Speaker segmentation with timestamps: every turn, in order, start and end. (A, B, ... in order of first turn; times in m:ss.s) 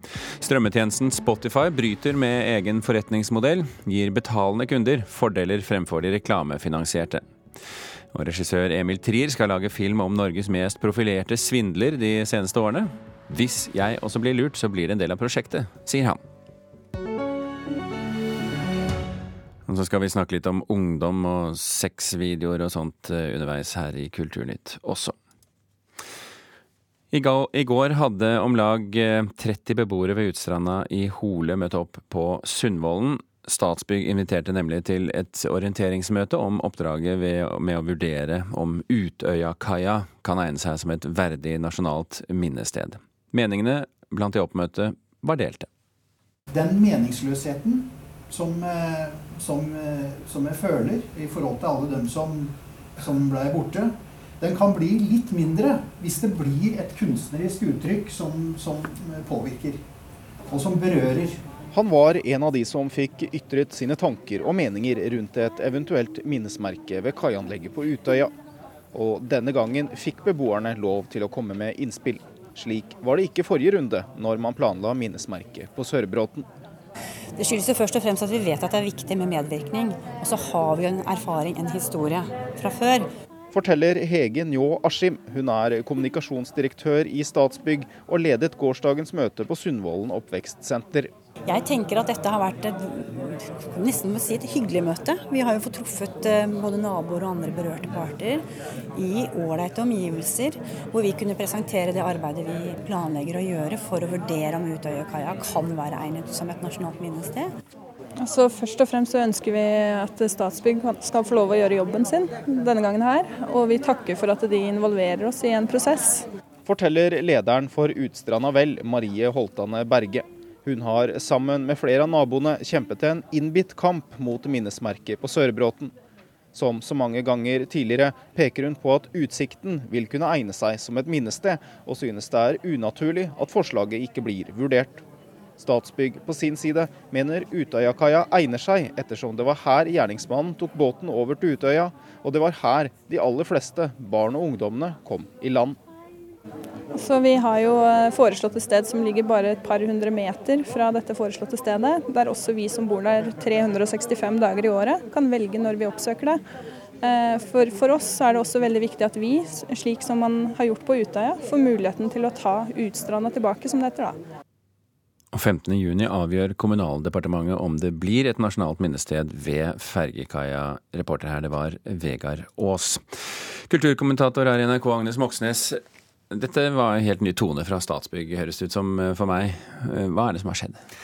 0:00.4-0:07.2 A
0:08.1-0:16.2 A
0:19.7-0:25.2 A
0:27.1-0:45.7 A
0:46.5-0:59.8 B
1:00.5-1:01.4 B
1:01.7-1:08.3 C
1:08.9-1:16.4 C
1:17.4-1:23.1 D
1:23.5-1:31.1 C
1:31.5-1:47.5 D
1:48.2-1:56.3 E
1:56.6-2:05.9 C
2:06.5-2:15.0 C
2:15.6-2:25.8 C
2:26.9-2:36.4 E
2:37.0-2:44.2 E
2:45.3-3:00.8 A